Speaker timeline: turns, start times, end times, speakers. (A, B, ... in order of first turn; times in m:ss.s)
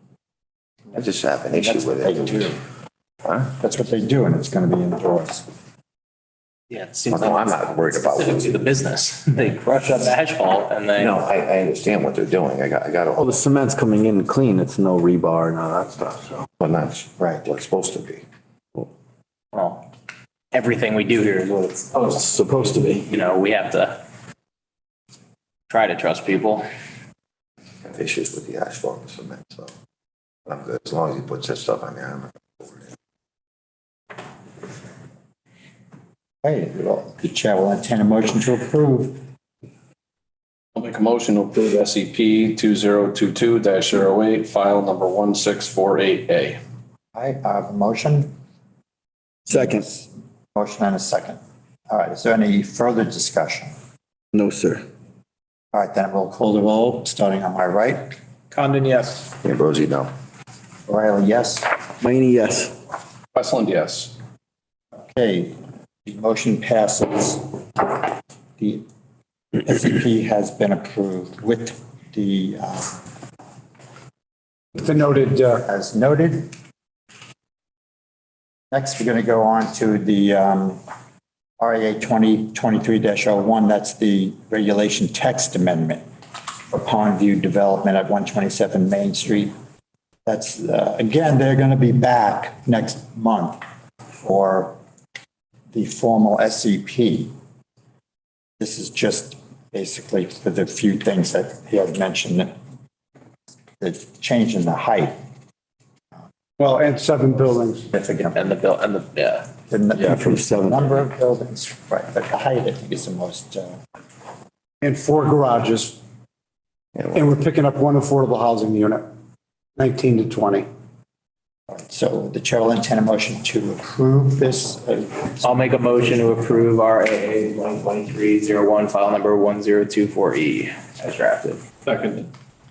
0:00.9-0:02.5 A
0:01.5-0:02.6 B
0:03.6-0:05.4 B
0:06.7-0:11.2 C
0:07.1-0:08.7 A
0:11.0-0:13.4 A
0:13.2-0:16.4 D
0:16.6-0:18.2 A
0:19.5-0:19.8 C
0:20.5-0:22.2 C
0:22.0-0:23.0 D
0:23.1-0:24.0 C
0:25.7-0:26.6 C
0:27.8-0:29.7 A
0:30.5-0:32.8 A
0:36.4-0:39.2 B
0:40.7-0:46.6 E
0:47.1-0:48.3 B
0:49.5-0:51.4 B
0:49.5-0:49.8 D
0:51.9-0:53.7 B
0:54.3-0:54.8 D
0:55.7-0:58.1 B
0:58.5-0:59.3 C
0:59.4-1:00.1 A
1:00.9-1:01.7 B
1:02.0-1:02.7 D
1:03.3-1:04.1 E
1:05.1-1:05.5 B
1:06.0-1:08.0 B
1:08.6-1:08.8 B
1:09.6-1:13.0 B
1:14.8-1:15.6 F
1:15.6-1:16.5 B
1:18.7-1:20.8 B
1:21.6-1:26.0 B
1:26.7-1:29.5 B
1:30.2-1:33.6 B
1:34.2-1:34.8 B
1:35.7-1:37.3 B
1:38.6-1:42.5 B
1:43.8-1:45.1 B
1:46.6-1:47.9 F
1:47.9-1:48.5 B
1:48.3-1:49.5 C
1:49.7-1:53.7 B
1:50.0-1:50.9 D
1:54.8-1:56.0 F
1:57.1-1:59.0 F
1:59.8-2:00.7 F
2:01.7-2:05.5 B
2:05.4-2:11.6 C
2:11.8-2:12.3 E